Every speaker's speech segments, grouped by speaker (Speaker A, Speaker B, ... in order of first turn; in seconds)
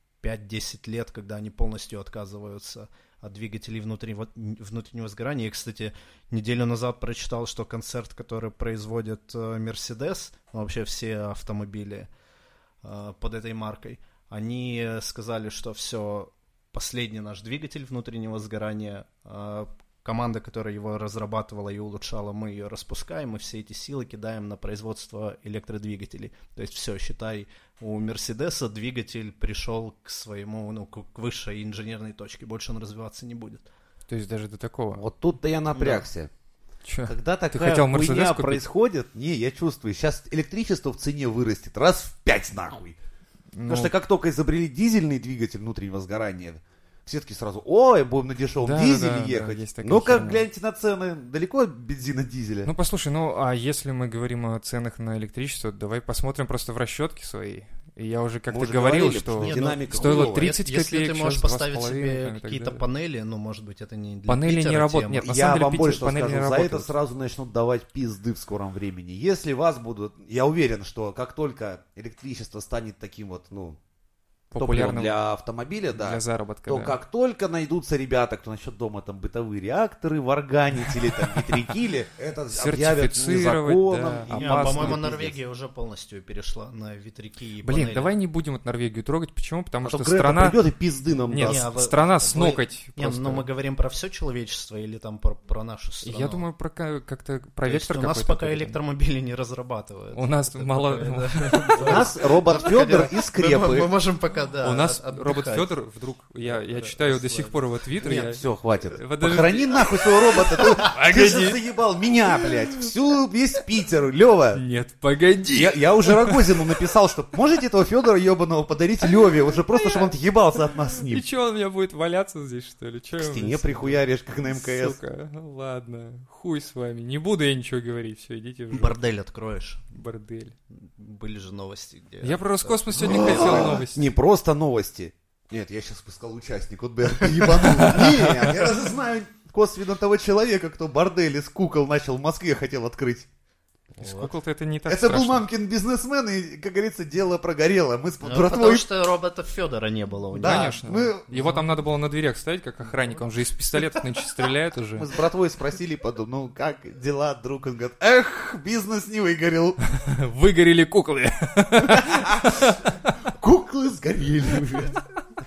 Speaker A: 0.2-12.1, 12.8-33.6, 35.8-36.0, 59.4-65.2, 84.3-88.1, 91.4-96.5, 97.7-105.7, 106.4-107.6, 128.7-129.8, 130.8-133.8, 137.2-138.1, 144.0-144.3, 148.2-151.6
Speaker B: 34.1-35.0, 36.9-38.6, 43.5-43.9, 48.6-50.4, 52.6-62.8, 64.3-66.9, 74.5-75.2, 76.0-77.0, 82.5-85.1, 87.6-90.6, 91.3-93.5, 96.0-98.8, 100.1-102.2, 104.6-111.6, 114.5-116.6, 119.8-120.1, 120.9-129.0, 129.9-130.6, 132.2-134.1, 137.9-138.2, 144.0-145.5, 150.3-155.1, 159.9-163.0
Speaker C: 35.0-36.3, 37.0-43.0, 43.7-52.7, 58.5-60.5, 65.2-73.8, 74.6-85.4, 89.8-91.6, 101.8-103.9, 108.0-114.6, 115.5-121.2, 123.2-125.0, 133.0-143.3, 144.9-148.8, 150.4-151.3, 155.0-159.8, 161.9-165.0